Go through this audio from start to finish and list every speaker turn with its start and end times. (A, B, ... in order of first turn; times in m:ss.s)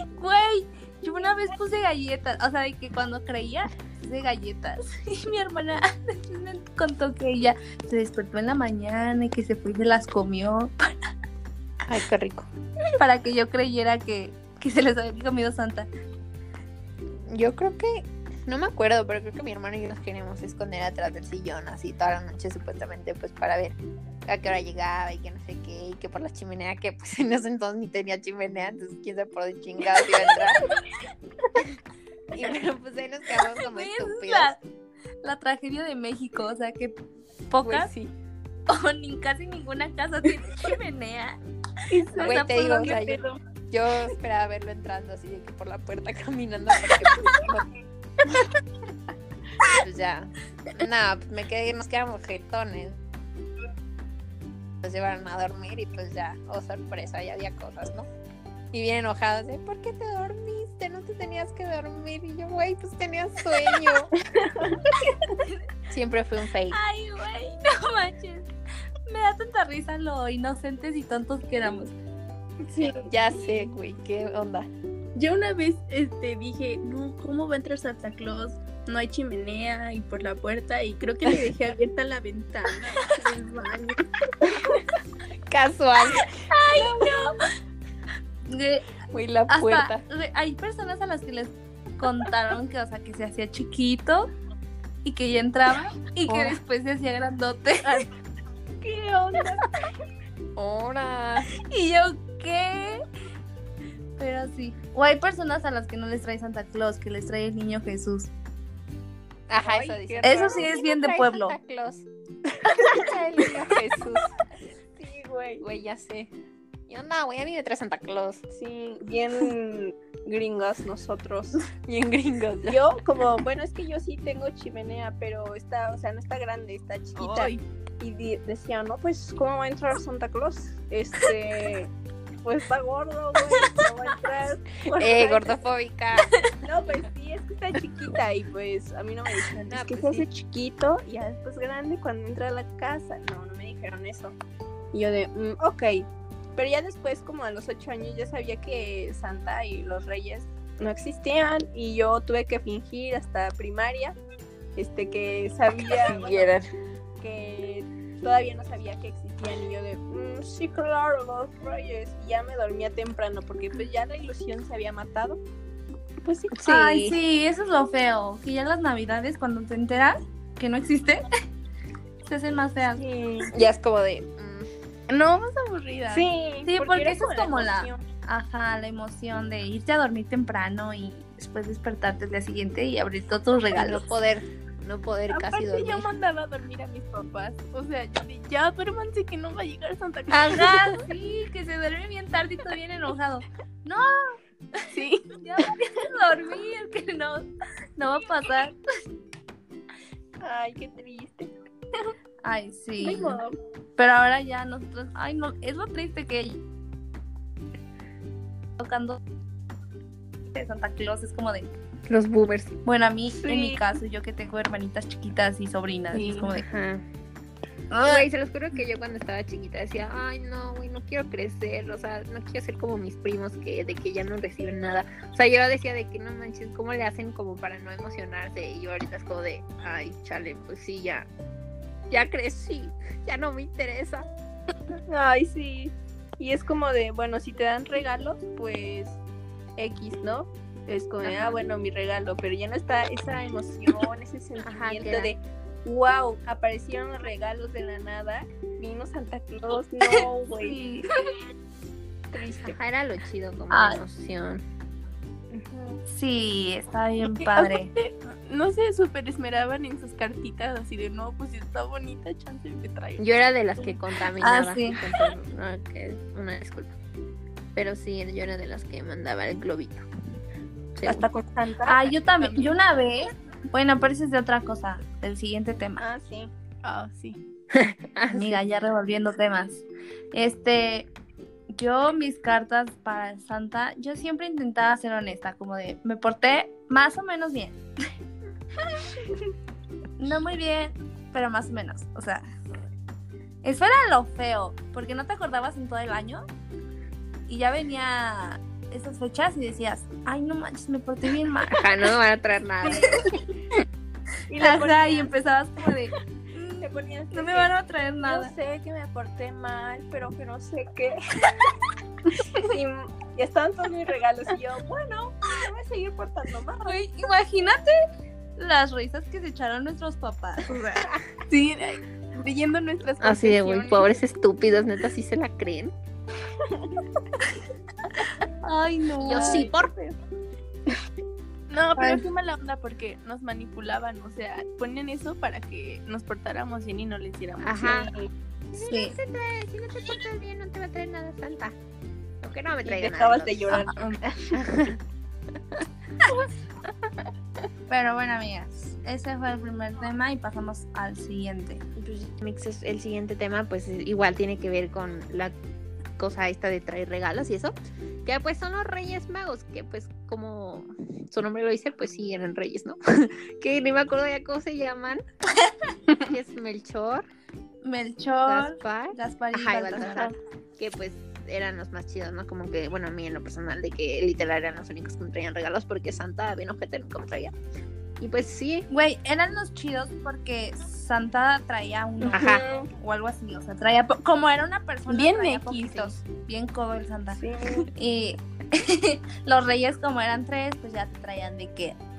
0:00.1-0:11.1 A
0:11.8-0:12.5 B
0:13.0-0:15.9 A
0:17.3-0:30.7 B
0:32.3-0:34.5 B
0:33.6-0:34.6 A
0:35.2-0:37.0 A
0:37.5-0:37.9 A
0:37.6-0:38.1 B
0:38.7-0:41.4 A
0:41.9-0:43.4 C
0:42.2-0:47.7 B
0:49.7-0:53.0 B
0:54.8-0:58.1 B
0:58.7-1:04.2 B
1:05.0-1:05.6 A
1:05.9-1:06.8 B
1:06.7-1:08.5 A
1:09.1-1:11.9 A
1:13.1-1:14.7 B
1:15.2-1:24.6 D
1:25.5-1:26.5 B
1:26.5-1:27.4 D
1:26.8-1:27.2 A
1:28.4-1:28.9 A
1:29.1-1:30.0 B
1:29.5-1:34.3 A
1:35.0-1:38.0 A
1:38.8-1:39.7 C
1:40.6-1:41.5 B
1:41.6-1:43.0 A
1:44.2-1:48.3 A
1:49.5-1:52.1 B
1:49.6-1:50.7 C
1:50.2-1:51.6 A
1:52.7-1:54.3 B
1:55.0-1:55.6 C
1:55.6-1:56.3 B
1:56.9-1:58.4 B
1:58.5-2:01.7 C
2:01.9-2:02.8 B
2:02.7-2:11.9 C
2:07.2-2:07.6 D
2:12.4-2:15.5 C
2:14.9-2:16.3 B
2:16.6-2:24.4 C
2:19.7-2:20.2 B
2:24.9-2:34.2 C
2:34.8-2:36.5 C
2:35.9-2:36.7 B
2:37.2-2:45.4 C
2:46.2-2:46.6 C
2:46.5-2:47.2 B
2:46.7-2:51.3 A
2:52.3-2:53.0 A
2:53.0-2:53.5 C
2:53.5-2:54.7 B
2:55.1-2:56.3 D
2:56.1-2:58.0 C
2:56.7-3:04.1 A
3:03.7-3:06.1 B
3:05.3-3:11.0 D
3:10.3-3:17.5 A
3:14.9-3:15.4 D
3:18.0-3:18.8 A
3:20.4-3:21.5 C
3:22.4-3:23.4 A
3:23.0-3:23.6 C
3:24.0-3:26.6 A
3:28.8-3:29.2 A
3:30.5-3:31.7 A
3:32.1-3:32.8 B
3:32.8-3:36.7 A
3:33.4-3:33.8 C
3:36.5-3:37.0 B
3:37.9-3:51.3 B
3:37.9-3:38.3 A
3:52.1-3:54.3 B
3:55.1-3:59.2 C
3:59.8-4:10.8 C
4:01.2-4:01.6 B
4:04.6-4:05.3 B
4:10.6-4:11.1 A
4:12.3-4:12.8 C
4:12.6-4:14.6 B
4:13.7-4:14.0 A
4:15.5-4:16.0 C
4:16.1-4:17.9 A
4:17.4-4:23.2 D
4:23.2-4:27.0 B
4:24.4-4:25.0 A
4:27.8-4:30.0 B
4:31.0-4:31.3 B
4:31.0-4:32.5 C
4:31.9-4:36.0 A
4:36.0-4:36.5 C
4:36.8-4:37.4 D
4:37.7-4:38.6 B
4:38.3-4:41.1 A
4:41.7-4:47.8 A
4:50.2-4:52.4 A
4:53.6-4:56.4 A
4:57.5-5:01.9 A
5:01.7-5:03.4 B
5:04.5-5:05.3 C
5:04.6-5:08.5 A
5:06.8-5:07.7 C
5:08.2-5:11.5 C
5:12.5-5:17.0 C
5:16.9-5:18.0 A
5:18.6-5:21.0 A
5:21.5-5:24.2 D
5:23.2-5:25.9 B
5:28.6-5:29.7 A
5:29.2-5:30.0 B
5:29.3-5:30.1 C
5:31.7-5:38.1 D
5:32.0-5:32.2 A
5:37.6-5:38.1 B
5:37.8-5:38.3 C
5:38.7-5:41.8 B
5:38.8-5:39.2 A
5:42.4-5:43.9 B
5:42.8-5:44.3 C
5:44.0-5:44.3 D
5:44.5-5:45.0 B
5:47.9-5:51.8 A
5:52.0-5:52.3 C
5:52.4-5:55.5 B
5:56.2-5:57.7 B
5:58.2-6:05.2 B
6:06.2-6:07.3 B
6:07.8-6:10.3 A
6:08.5-6:17.5 B
6:18.2-6:18.9 B
6:18.9-6:32.0 A
6:22.2-6:22.9 C
6:22.3-6:22.6 B
6:25.1-6:26.0 D
6:27.3-6:27.9 C